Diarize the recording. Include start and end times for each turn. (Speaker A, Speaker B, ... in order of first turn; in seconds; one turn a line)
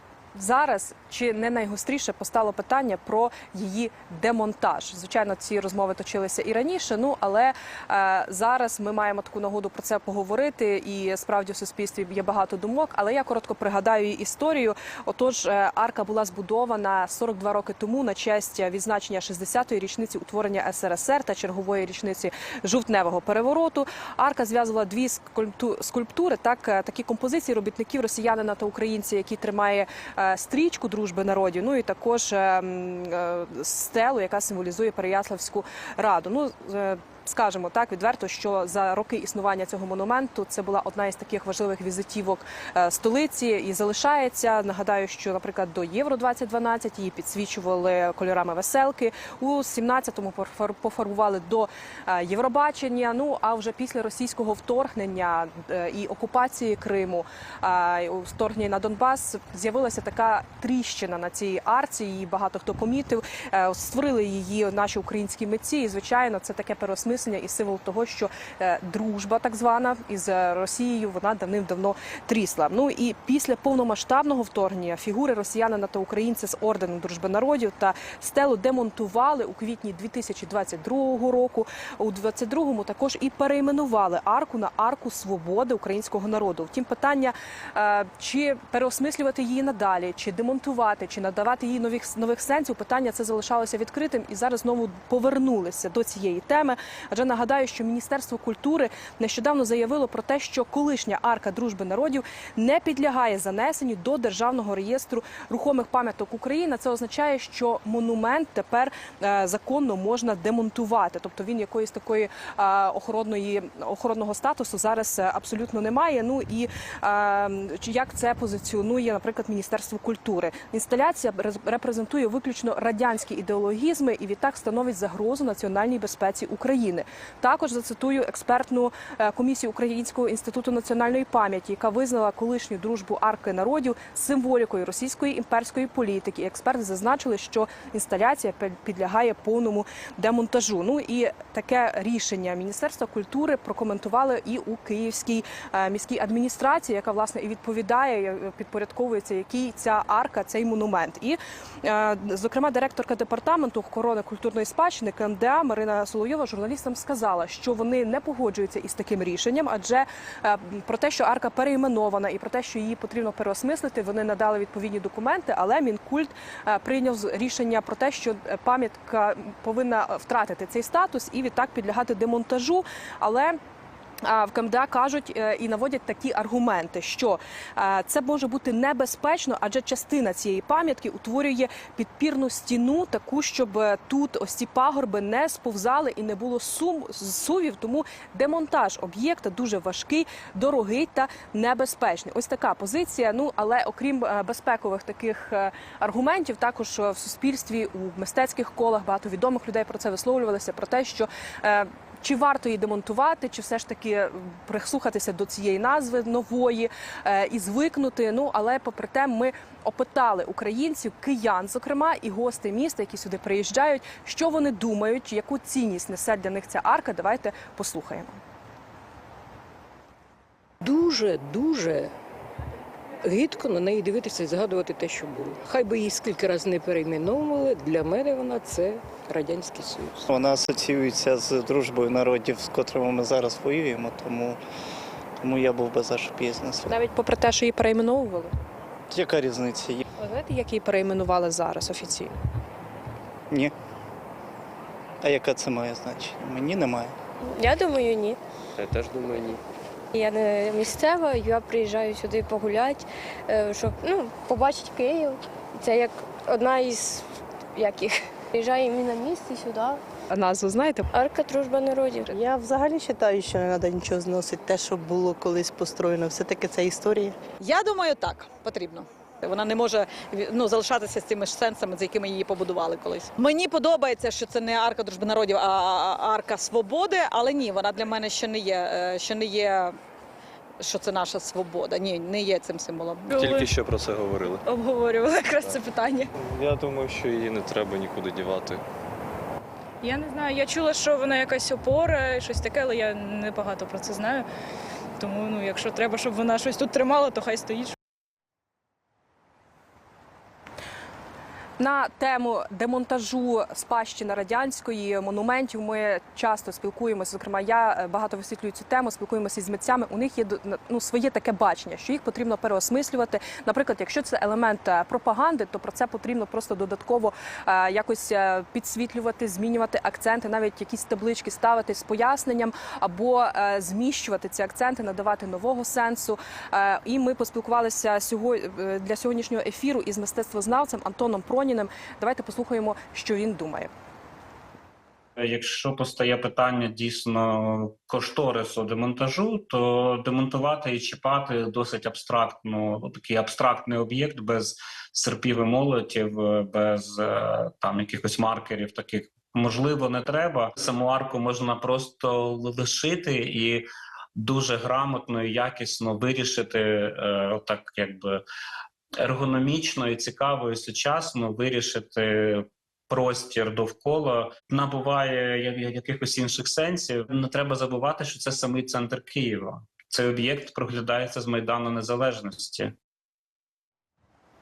Speaker A: 0.3-173.6
Speaker A: 174.2-218.4
Speaker B: 220.8-222.1
Speaker B: 223.2-230.2
Speaker C: 230.3-234.6
Speaker C: 235.4-236.9
Speaker A: 236.9-238.5
Speaker C: 239.1-240.0
Speaker A: 240.2-242.3
Speaker C: 245.2-247.1
Speaker D: 247.4-248.4
Speaker E: 248.8-249.6
Speaker D: 250.1-260.0
Speaker A: 260.3-261.1
Speaker D: 261.1-262.4
Speaker F: 262.4-267.3
Speaker G: 267.6-280.0
Speaker G: 280.8-283.3
Speaker H: 283.3-283.8
Speaker E: 283.4-284.6
Speaker H: 284.6-286.3
Speaker E: 286.4-288.8
Speaker H: 290.0-294.5
Speaker H: 295.2-297.9
Speaker A: 301.8-333.9
Speaker I: 335.4-353.8
Speaker I: 354.4-358.4
Speaker I: 359.2-372.9